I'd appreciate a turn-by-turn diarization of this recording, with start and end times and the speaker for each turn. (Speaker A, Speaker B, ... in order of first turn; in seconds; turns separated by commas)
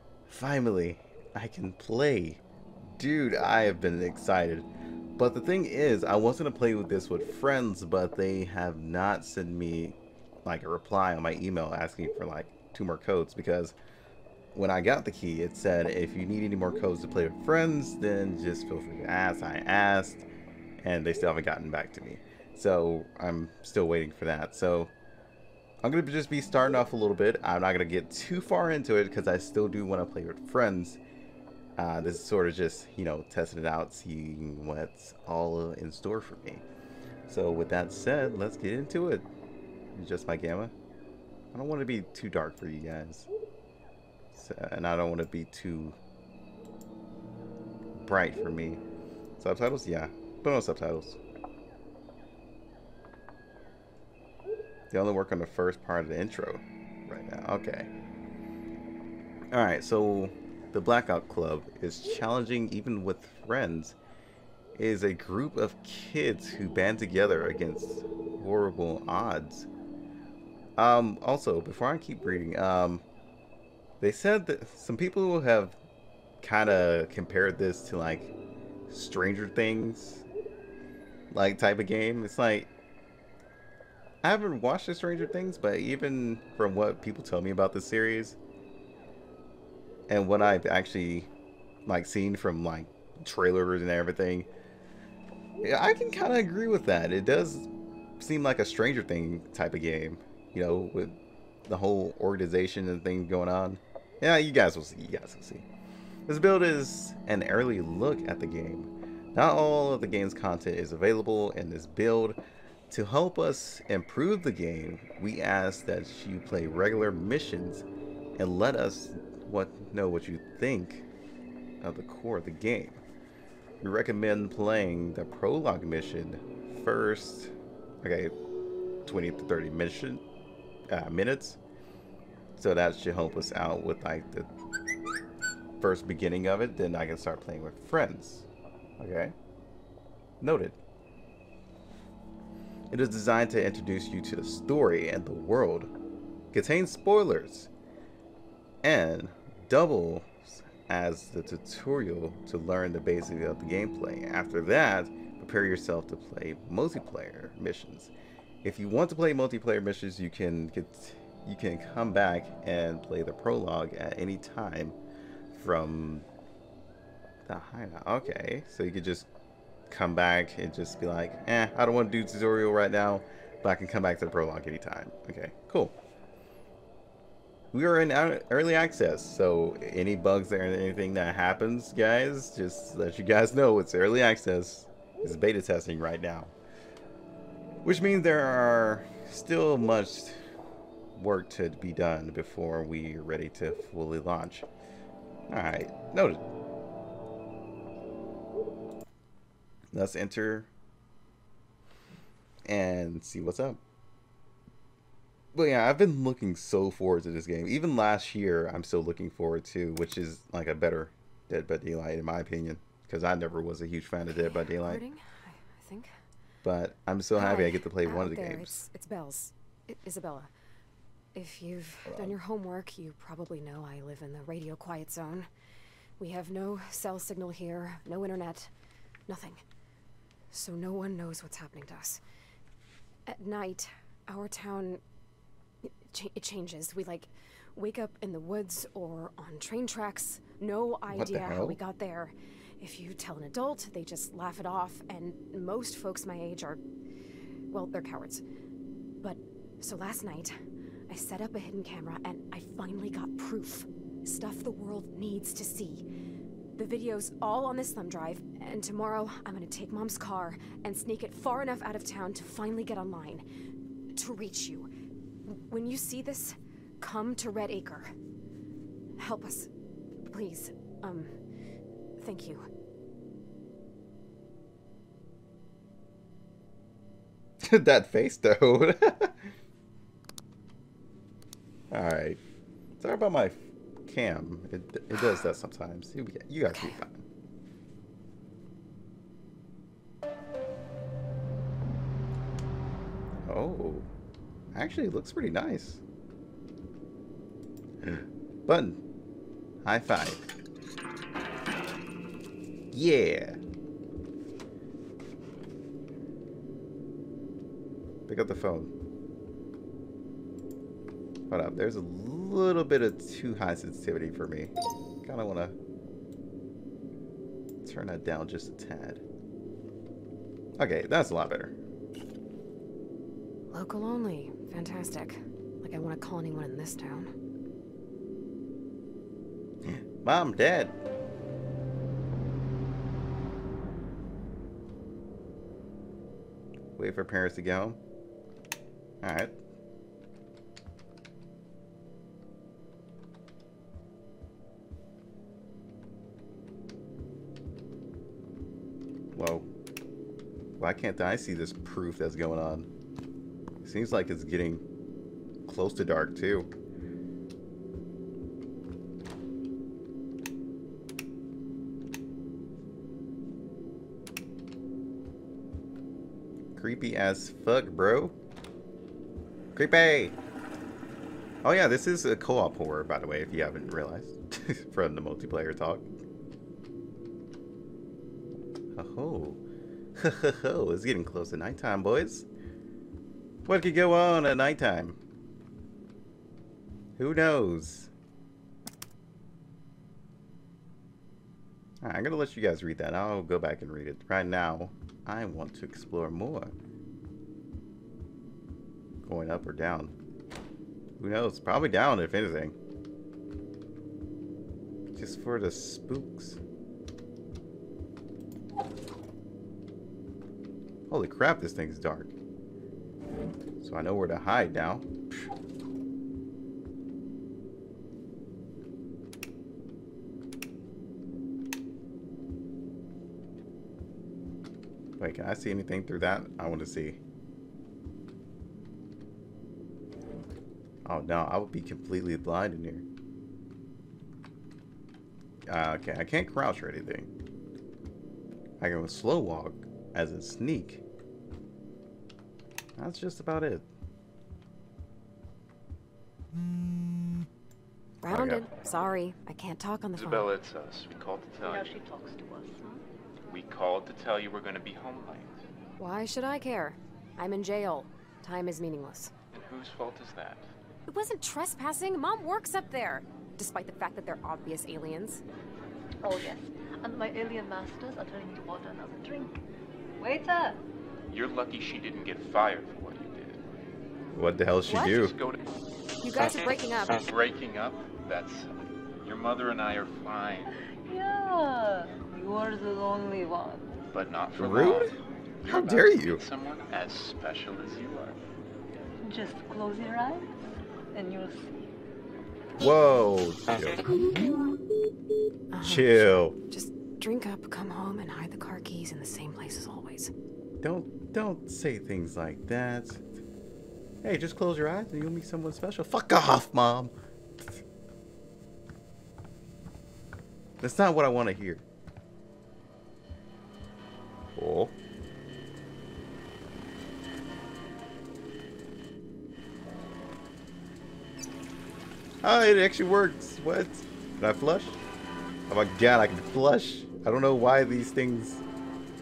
Speaker A: 0.3-2.4, Speaker A: 3.0-4.7, Speaker A: 5.2-13.8, Speaker A: 14.5-20.3, Speaker A: 20.8-24.9, Speaker A: 25.8-31.0, Speaker A: 31.8-36.6, Speaker A: 37.3-39.3, Speaker A: 40.0-40.7, Speaker A: 41.5-43.3, Speaker A: 44.3-46.0, Speaker A: 48.0-48.8, Speaker A: 49.4-51.2, Speaker A: 54.9-57.9, Speaker A: 59.5-64.0, Speaker A: 64.8-69.7, Speaker A: 70.8-73.0, Speaker A: 74.0-75.8, Speaker A: 76.4-78.3, Speaker A: 78.9-80.2, Speaker A: 81.3-82.7, Speaker A: 84.2-88.4, Speaker A: 90.1-91.3, Speaker A: 91.8-94.5, Speaker A: 95.6-97.7, Speaker A: 98.2-105.7, Speaker A: 106.3-117.8, Speaker A: 118.4-121.1, Speaker A: 121.8-123.0, Speaker A: 123.8-128.3, Speaker A: 129.0-130.2, Speaker A: 130.9-131.6, Speaker A: 132.6-134.5, Speaker A: 135.8-138.5, Speaker A: 139.0-139.3, Speaker A: 140.4-140.8, Speaker A: 142.9-145.9, Speaker A: 146.5-147.7, Speaker A: 148.8-158.1, Speaker A: 158.6-165.0, Speaker A: 165.5-166.2, Speaker A: 167.4-169.3, Speaker A: 169.9-175.9, Speaker A: 177.7-186.5, Speaker A: 187.8-190.4, Speaker A: 191.2-194.7, Speaker A: 195.5-196.4, Speaker A: 199.9-200.7, Speaker A: 202.7-203.8, Speaker A: 205.5-215.0, Speaker B: 214.3-216.2, Speaker A: 216.6-218.8, Speaker B: 217.3-220.5, Speaker B: 221.3-225.5, Speaker A: 222.1-222.3, Speaker B: 226.2-228.7, Speaker B: 229.3-229.6, Speaker B: 230.5-232.2, Speaker B: 233.3-235.0, Speaker B: 235.8-246.8, Speaker A: 241.1-241.8, Speaker B: 247.7-248.4, Speaker B: 249.2-256.0, Speaker B: 256.8-263.4, Speaker B: 264.1-264.9, Speaker B: 265.4-268.1, Speaker B: 269.2-269.7, Speaker B: 270.2-271.4, Speaker B: 272.2-272.7, Speaker A: 277.6-279.5, Speaker A: 281.9-282.4, Speaker A: 283.0-287.2, Speaker A: 293.4-294.1, Speaker A: 294.7-296.0, Speaker A: 298.0-299.0, Speaker A: 299.8-300.4, Speaker A: 302.9-303.6, Speaker A: 308.3-308.9, Speaker A: 311.5-314.7, Speaker A: 315.2-315.8, Speaker A: 317.8-319.2, Speaker A: 320.8-321.8, Speaker B: 323.7-327.3, Speaker A: 329.8-330.9, Speaker A: 337.0-338.0, Speaker A: 339.2-339.6, Speaker A: 349.3-349.7, Speaker A: 350.8-352.9, Speaker A: 353.8-354.8, Speaker A: 355.6-356.7, Speaker A: 366.8-368.3, Speaker A: 369.7-370.4, Speaker A: 371.6-376.1, Speaker A: 378.9-379.6, Speaker A: 380.1-382.5, Speaker A: 383.6-385.2, Speaker A: 387.2-388.1, Speaker A: 392.0-396.8, Speaker A: 399.2-400.1, Speaker A: 401.2-402.8, Speaker A: 405.1-406.6, Speaker A: 411.1-412.3, Speaker A: 413.8-415.1, Speaker A: 425.2-427.2, Speaker A: 431.0-433.0, Speaker A: 435.7-437.3, Speaker A: 438.8-441.0, Speaker A: 443.0-443.8, Speaker B: 448.2-450.5, Speaker A: 448.3-448.7, Speaker C: 450.1-452.0, Speaker D: 451.6-453.0, Speaker C: 453.5-455.6, Speaker B: 456.0-459.3, Speaker C: 459.5-460.6, Speaker B: 461.1-465.4, Speaker D: 466.2-469.6, Speaker D: 470.2-470.8, Speaker C: 471.3-473.6, Speaker A: 474.3-475.3, Speaker C: 474.9-475.7, Speaker B: 476.2-477.2, Speaker C: 477.2-478.7, Speaker C: 479.2-480.7, Speaker D: 481.1-483.8, Speaker C: 484.1-488.4, Speaker A: 484.6-485.1, Speaker A: 485.6-486.4, Speaker D: 489.2-490.6, Speaker D: 491.1-491.8, Speaker A: 492.8-494.4, Speaker B: 495.7-500.3, Speaker A: 495.8-496.5, Speaker A: 500.8-503.2, Speaker A: 504.2-507.1, Speaker A: 510.8-511.8, Speaker A: 514.5-514.9, Speaker A: 522.4-525.0, Speaker A: 525.7-528.6